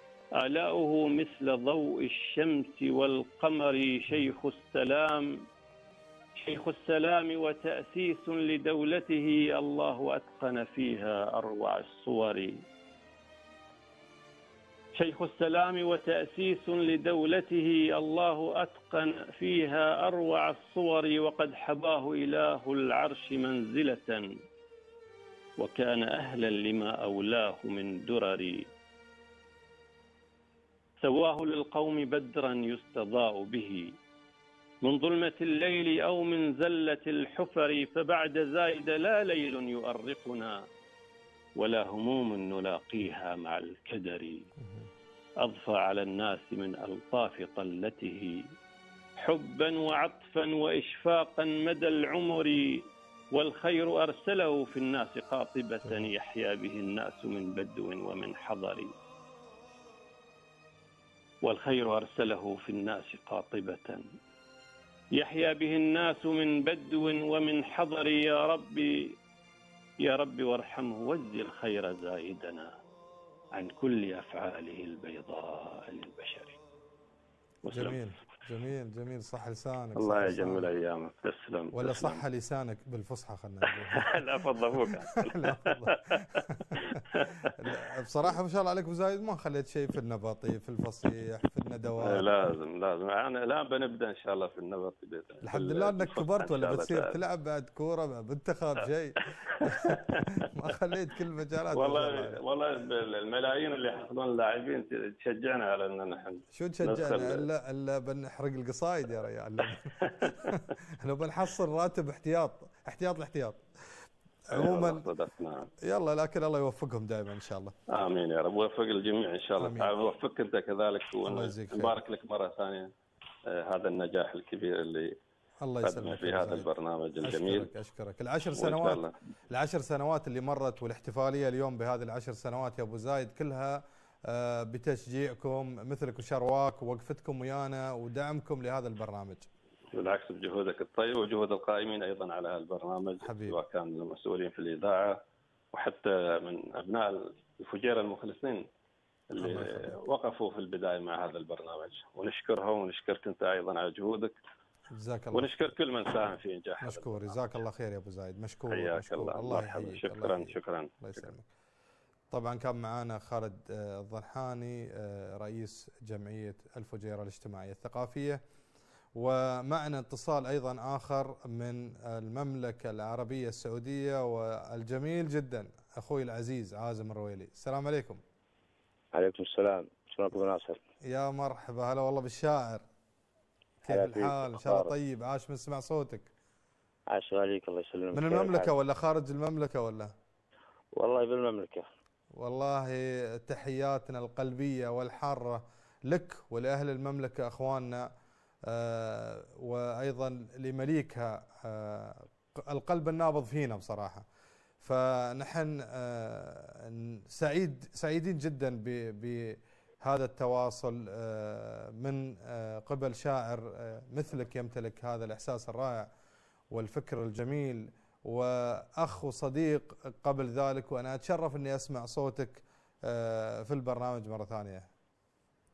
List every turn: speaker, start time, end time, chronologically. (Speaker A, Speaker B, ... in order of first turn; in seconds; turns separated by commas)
Speaker A: 0.4-5.4, Speaker A: 6.4-12.6, Speaker A: 14.9-24.3, Speaker A: 25.6-28.7, Speaker A: 31.0-34.0, Speaker A: 34.8-40.7, Speaker A: 41.6-44.5, Speaker A: 45.4-48.5, Speaker A: 49.2-58.9, Speaker A: 61.4-64.1, Speaker A: 65.2-69.2, Speaker A: 70.0-72.8, Speaker A: 73.5-76.6, Speaker A: 77.7-78.0, Speaker B: 77.7-80.7, Speaker A: 80.0-82.2, Speaker B: 81.7-84.2, Speaker A: 83.7-87.8, Speaker B: 85.2-87.0, Speaker B: 87.6-92.3, Speaker A: 92.0-97.2, Speaker B: 95.4-102.4, Speaker A: 99.5-100.5, Speaker A: 101.7-107.5, Speaker B: 106.5-115.0, Speaker A: 110.0-110.6, Speaker A: 114.5-115.7, Speaker B: 115.8-117.8, Speaker A: 117.9-122.9, Speaker B: 119.6-119.9, Speaker B: 121.3-122.0, Speaker A: 123.5-125.2, Speaker B: 125.6-126.7, Speaker A: 125.8-127.7, Speaker B: 127.2-139.5, Speaker A: 128.6-129.2, Speaker A: 139.9-145.2, Speaker B: 143.2-143.6, Speaker A: 145.7-148.7, Speaker A: 149.3-154.4, Speaker B: 149.4-150.0, Speaker B: 154.9-155.7, Speaker A: 155.3-157.4, Speaker B: 156.8-161.5, Speaker A: 158.7-161.3, Speaker B: 162.3-168.4, Speaker B: 169.2-178.2, Speaker C: 179.1-180.8, Speaker B: 181.1-182.8, Speaker B: 183.8-186.3, Speaker C: 183.9-184.9, Speaker C: 187.1-188.7, Speaker B: 188.1-190.1, Speaker C: 191.0-191.9, Speaker B: 192.4-198.1, Speaker B: 198.7-204.2, Speaker B: 204.8-216.1, Speaker B: 216.7-224.9